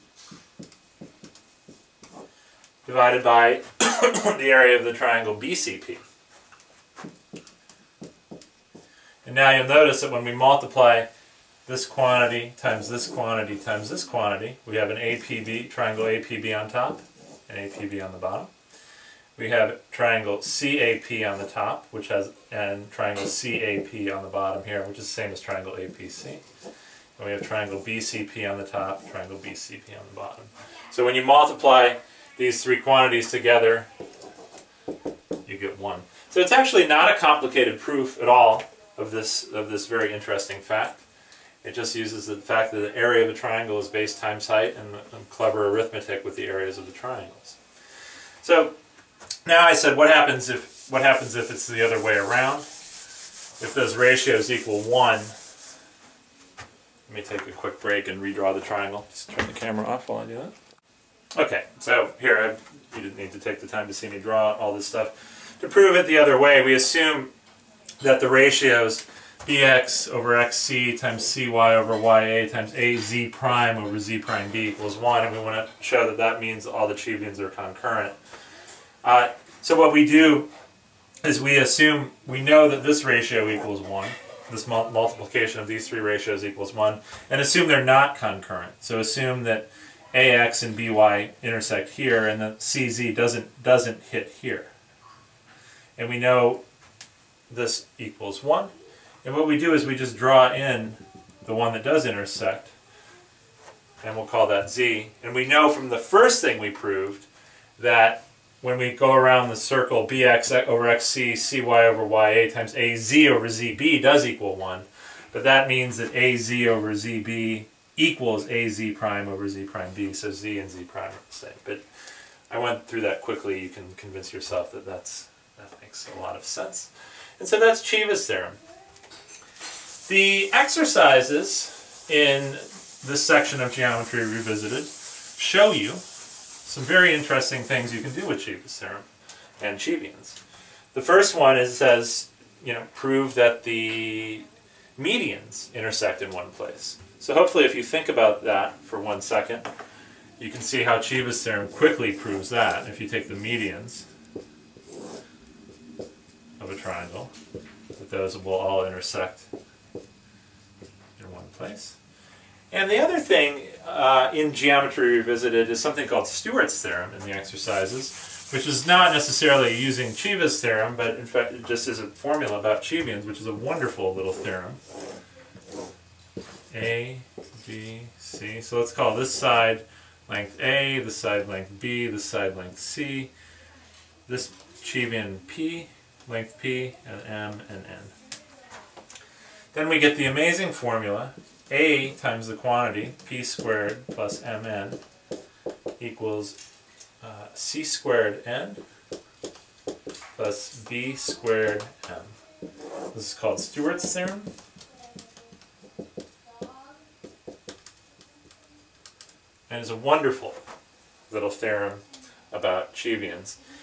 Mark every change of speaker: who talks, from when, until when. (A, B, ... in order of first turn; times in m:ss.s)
0:02.8-0:06.0 A
0:09.2-0:11.1 A
0:11.6-0:18.5 A
0:19.4-0:26.4 A
0:27.2-0:33.9 A
0:35.4-0:41.0 A
0:41.6-0:47.6 A
0:48.4-0:48.7 A
0:49.4-0:52.7 A
0:53.6-0:55.3 A
0:57.1-1:00.5 A
1:01.3-1:07.3 A
1:08.0-1:18.2 A
1:19.0-1:20.5 A
1:21.2-1:34.7 A
1:36.0-1:36.6 A
1:37.5-1:38.7 A
1:39.2-1:42.7 A
1:44.0-1:47.3 A
1:47.8-2:01.8 A
2:02.5-2:08.6 A
2:10.0-2:16.0 A
2:16.6-2:19.1 A
2:19.6-2:20.4 A
2:20.9-2:24.4 A
2:25.0-2:29.7 A
2:30.4-2:34.0 A
2:36.6-2:37.3 A
2:38.0-2:39.5 A
2:41.2-2:42.0 A
2:42.7-2:54.8 A
2:56.7-3:03.3 A
3:04.3-3:08.1 A
3:09.7-3:15.0 A
3:16.0-3:16.6 A
3:17.2-3:18.8 A
3:20.4-3:22.4 A
3:23.1-3:24.5 A
3:29.7-3:30.6 A
3:31.3-3:33.6 A